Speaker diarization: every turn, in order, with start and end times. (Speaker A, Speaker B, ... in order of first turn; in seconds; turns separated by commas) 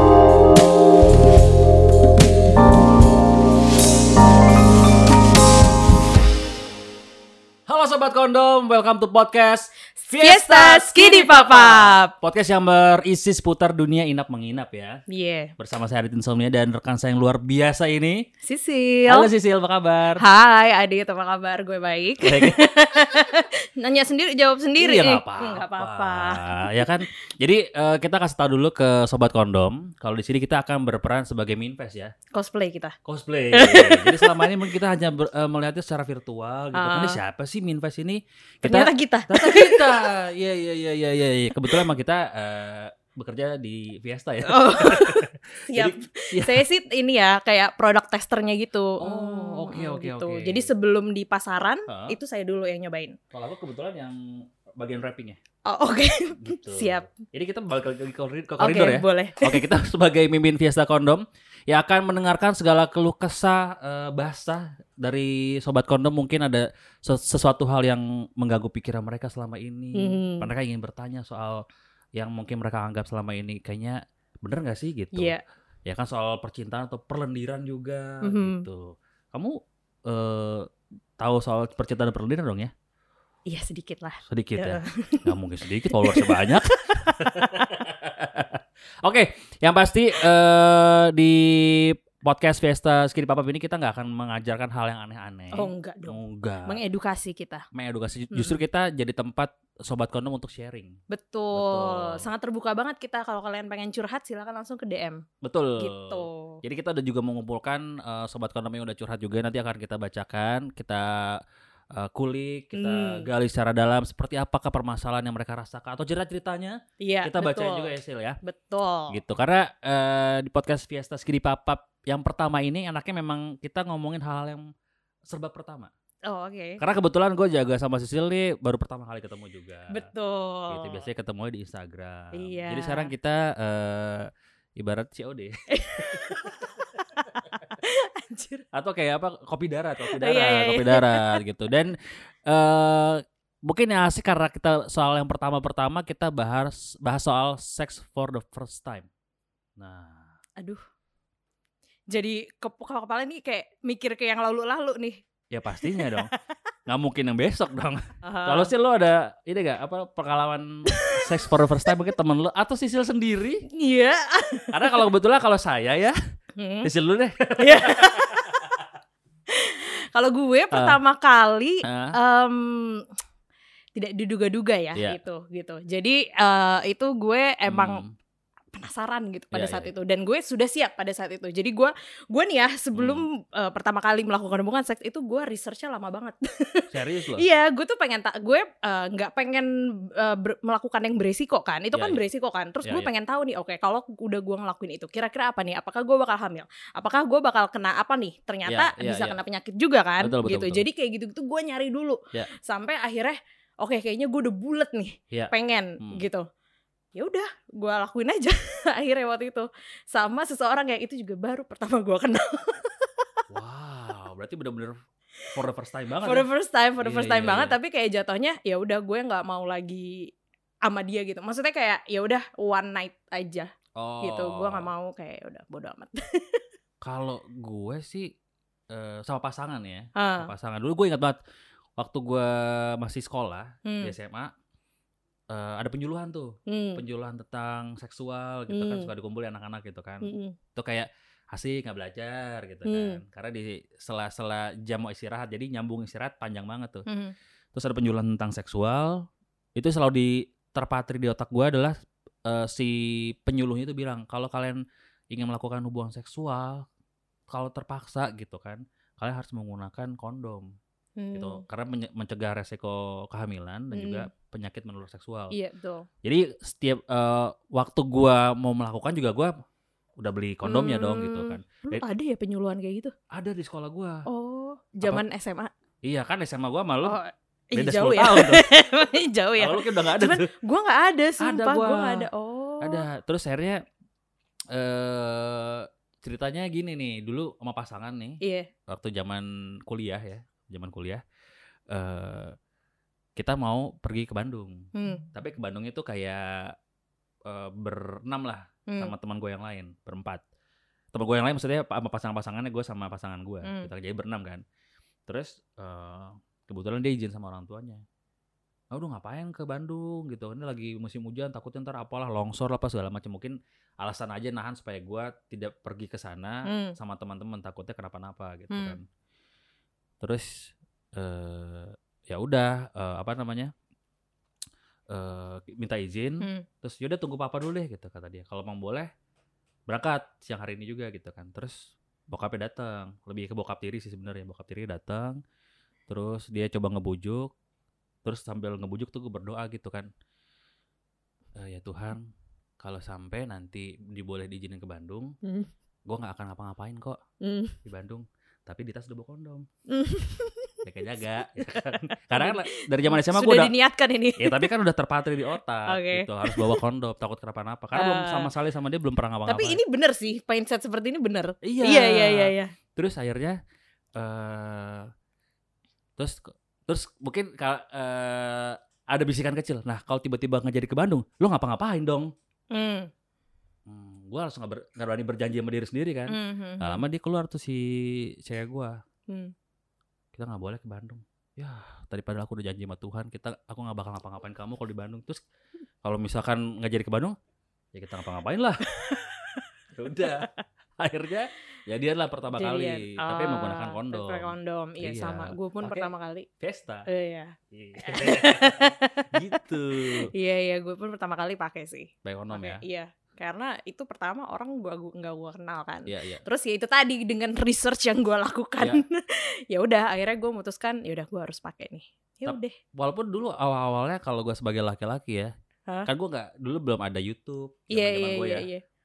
Speaker A: 7.7-15.0, Speaker B: 10.1-12.1, Speaker B: 15.1-15.5, Speaker A: 15.6-18.3, Speaker B: 18.4-19.3, Speaker A: 19.1-20.2, Speaker B: 20.2-27.0, Speaker A: 22.2-22.6, Speaker A: 24.8-32.1, Speaker B: 32.3-33.0, Speaker A: 33.0-46.7, Speaker B: 33.5-34.5, Speaker B: 36.7-37.2, Speaker B: 38.6-40.1, Speaker B: 44.5-53.2, Speaker A: 49.0-50.7, Speaker A: 51.9-52.2, Speaker A: 53.3-55.4, Speaker B: 55.6-57.1, Speaker A: 56.4-71.6, Speaker B: 58.6-59.7, Speaker B: 70.0-70.5, Speaker A: 72.2-82.7, Speaker B: 75.2-75.4, Speaker B: 78.2-78.7, Speaker B: 83.5-85.3, Speaker A: 84.2-96.8, Speaker B: 85.9-87.7, Speaker B: 95.5-97.7, Speaker A: 97.7-101.0, Speaker B: 98.3-98.6, Speaker B: 101.1-105.2, Speaker A: 101.5-102.3, Speaker A: 105.4-111.4, Speaker B: 105.8-106.6, Speaker A: 111.9-118.4, Speaker B: 112.7-113.3, Speaker B: 117.0-117.9, Speaker B: 118.4-119.2, Speaker A: 119.1-124.7, Speaker A: 125.3-125.9, Speaker B: 126.2-126.8, Speaker A: 126.8-130.1, Speaker B: 129.9-131.0, Speaker A: 130.7-136.8, Speaker B: 132.3-133.1, Speaker B: 135.7-138.7, Speaker A: 138.7-149.1, Speaker B: 140.1-141.4, Speaker A: 149.8-150.3, Speaker B: 152.1-155.2, Speaker A: 155.5-156.3, Speaker B: 155.8-156.4, Speaker A: 156.9-163.7, Speaker B: 158.2-158.7, Speaker B: 160.9-161.9, Speaker B: 163.7-165.0, Speaker A: 164.7-166.1, Speaker B: 166.6-166.9, Speaker A: 166.8-168.5, Speaker B: 167.6-168.6, Speaker B: 169.5-173.1, Speaker A: 170.7-171.0, Speaker A: 171.8-172.2, Speaker B: 173.9-178.0, Speaker A: 177.7-178.1, Speaker B: 178.7-206.5, Speaker A: 179.5-179.9, Speaker A: 182.9-183.3, Speaker A: 186.9-187.4, Speaker A: 191.9-192.2, Speaker A: 192.8-193.1, Speaker A: 198.7-199.4, Speaker A: 200.2-200.8, Speaker A: 205.3-206.2, Speaker B: 207.2-213.4, Speaker A: 213.5-214.9, Speaker A: 215.5-216.5, Speaker B: 216.2-220.3, Speaker A: 217.0-217.8, Speaker B: 220.8-223.7, Speaker A: 224.0-224.9, Speaker B: 224.2-226.7, Speaker A: 227.0-228.3, Speaker A: 228.9-231.4, Speaker B: 230.2-230.5, Speaker A: 232.0-234.5, Speaker B: 233.8-234.1, Speaker A: 235.5-247.1, Speaker B: 236.7-237.0, Speaker B: 238.7-239.1, Speaker B: 240.2-240.6, Speaker B: 242.9-243.2, Speaker B: 247.1-247.3, Speaker A: 247.7-256.9, Speaker A: 257.5-260.7, Speaker B: 261.2-261.6, Speaker A: 261.3-265.6, Speaker B: 263.9-264.3, Speaker B: 265.5-266.1, Speaker A: 266.2-269.6, Speaker A: 270.2-272.0, Speaker B: 270.6-273.1, Speaker A: 273.3-274.2, Speaker B: 274.3-275.7, Speaker A: 276.1-277.2, Speaker B: 277.1-283.1, Speaker A: 277.7-278.6, Speaker A: 279.6-280.5, Speaker A: 281.4-282.3, Speaker A: 282.8-283.8, Speaker A: 284.7-291.2, Speaker B: 288.4-288.7, Speaker A: 291.9-292.6, Speaker A: 293.4-296.8, Speaker B: 294.9-295.3, Speaker A: 297.5-300.4, Speaker B: 298.9-299.1, Speaker A: 301.1-304.6, Speaker A: 305.3-308.0, Speaker A: 308.9-319.0, Speaker B: 316.7-317.0, Speaker B: 318.7-319.0, Speaker A: 320.2-323.7, Speaker A: 325.1-329.1, Speaker A: 329.9-335.4, Speaker A: 336.1-337.5, Speaker A: 338.2-340.1, Speaker A: 341.6-342.3, Speaker A: 342.8-345.4, Speaker B: 345.4-345.7, Speaker A: 346.1-347.2, Speaker B: 347.4-347.8, Speaker A: 347.8-349.7, Speaker B: 349.9-350.8, Speaker A: 350.8-353.7, Speaker B: 352.1-354.7, Speaker A: 354.4-359.8, Speaker B: 355.9-356.8, Speaker B: 357.9-358.5, Speaker B: 359.5-362.7, Speaker A: 361.6-363.6, Speaker A: 364.2-365.1, Speaker A: 366.2-372.3, Speaker B: 372.7-373.1, Speaker A: 373.9-379.0, Speaker B: 376.3-377.0, Speaker A: 380.3-385.4, Speaker A: 386.0-387.4, Speaker A: 387.9-388.9, Speaker B: 389.0-389.6, Speaker A: 389.9-390.5, Speaker A: 391.0-397.1, Speaker B: 392.6-396.5, Speaker B: 397.1-412.8, Speaker A: 397.7-400.3, Speaker A: 402.2-402.8, Speaker A: 406.1-406.4, Speaker A: 412.5-415.5, Speaker A: 416.1-418.7, Speaker B: 417.9-418.8